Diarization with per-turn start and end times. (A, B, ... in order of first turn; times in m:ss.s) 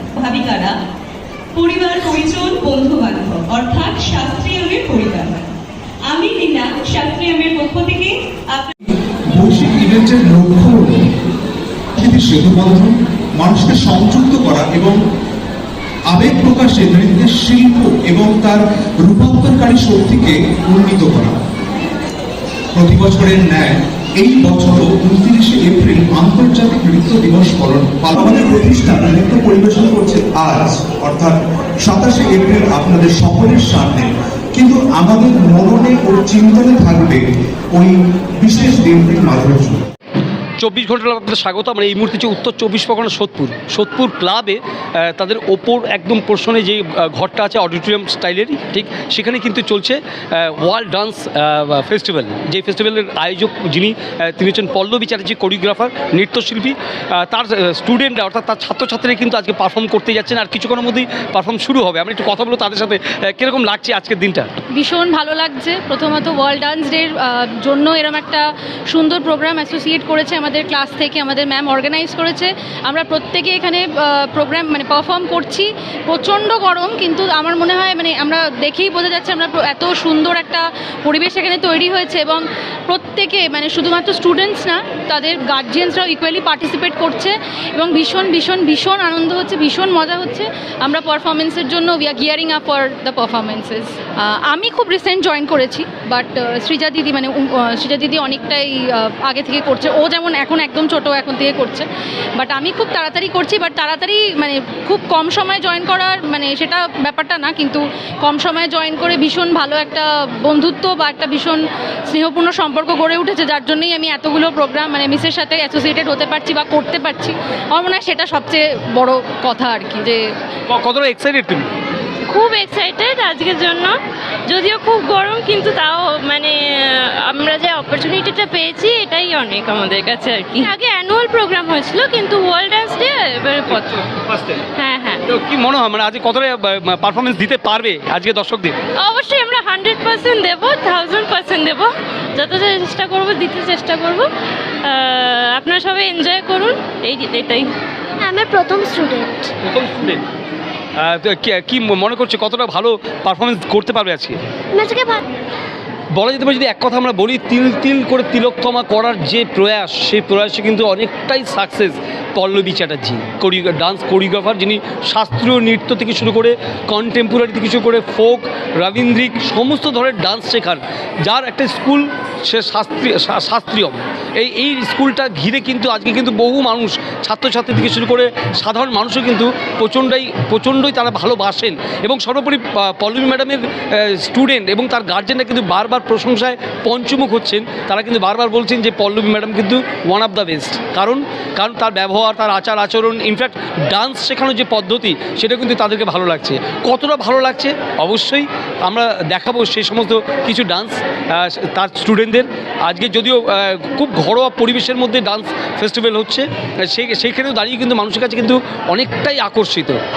0:00.2-0:00.7 A
0:01.5-0:05.4 A
0:06.1-0:08.7 A
0:09.4-0:11.0 B
0:12.0-0:15.0 B
0:16.1-0:21.3 B
0:22.8-0:39.8 B
0:40.6-1:04.5 C
1:04.7-2:00.2 D
2:00.7-2:01.7 C
2:02.3-2:14.0 E
2:14.1-2:14.6 C
2:14.7-2:15.2 E
2:15.3-2:18.7 C
2:19.0-2:24.3 E
2:24.8-2:27.7 E
2:29.6-2:30.2 C
2:31.0-2:34.4 C
2:36.1-3:30.0 C